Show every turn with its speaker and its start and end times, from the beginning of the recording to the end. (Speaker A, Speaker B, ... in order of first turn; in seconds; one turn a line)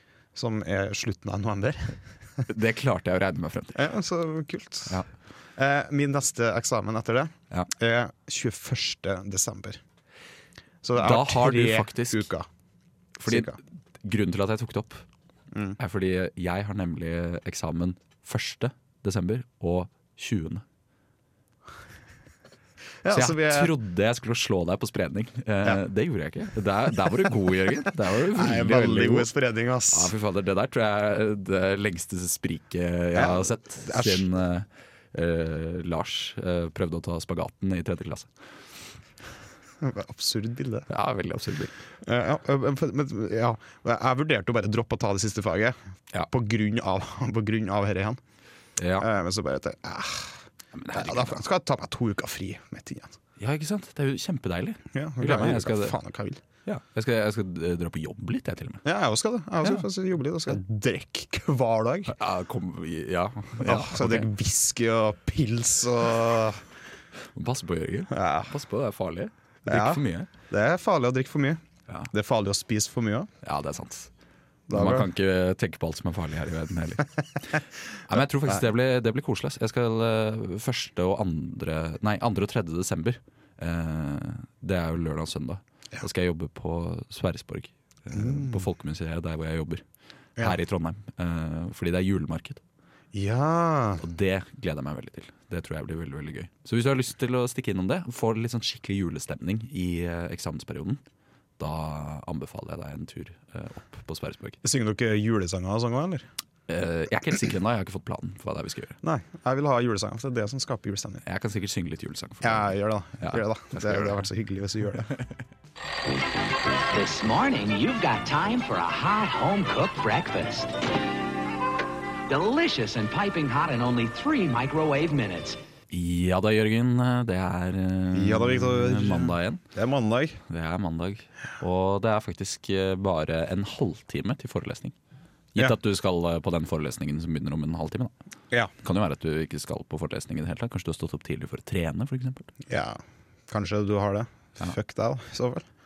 Speaker A: 0.3-2.0
Speaker B: 2.5-3.8
Speaker A: 3.7-5.0
Speaker A: 5.5-9.8
Speaker A: 10.8-12.5
Speaker B: 10.9-12.3
Speaker B: 13.2-15.0
Speaker A: 13.2-13.6
Speaker A: 15.5-15.8
Speaker B: 15.8-20.6
Speaker A: 23.0-23.8
Speaker B: 23.1-29.3
Speaker A: 28.2-30.1
Speaker B: 29.9-38.3
Speaker A: 33.1-34.2
Speaker A: 39.8-40.9
Speaker B: 40.9-41.7
Speaker A: 42.0-45.8
Speaker A: 46.3-48.2
Speaker B: 48.8-49.1
Speaker A: 49.0-53.1
Speaker B: 50.7-51.4
Speaker B: 53.4-56.0
Speaker A: 54.9-56.4
Speaker B: 56.6-58.8
Speaker A: 58.8-62.1
Speaker B: 62.1-64.3
Speaker A: 63.6-66.6
Speaker B: 67.3-70.3
Speaker A: 68.1-68.5
Speaker A: 69.7-73.3
Speaker B: 73.4-74.1
Speaker A: 74.7-75.1
Speaker B: 74.7-89.8
Speaker A: 88.1-88.7
Speaker B: 90.4-92.6
Speaker A: 93.1-94.0
Speaker B: 94.0-101.0
Speaker B: 101.6-104.6
Speaker A: 104.6-106.3
Speaker B: 106.7-109.0
Speaker A: 109.0-111.2
Speaker B: 111.2-114.2
Speaker A: 112.4-115.1
Speaker C: 116.9-120.8
Speaker C: 122.3-125.6
Speaker B: 125.9-129.6
Speaker A: 128.1-130.4
Speaker B: 130.5-134.9
Speaker B: 135.5-138.1
Speaker B: 138.8-142.5
Speaker A: 142.7-145.6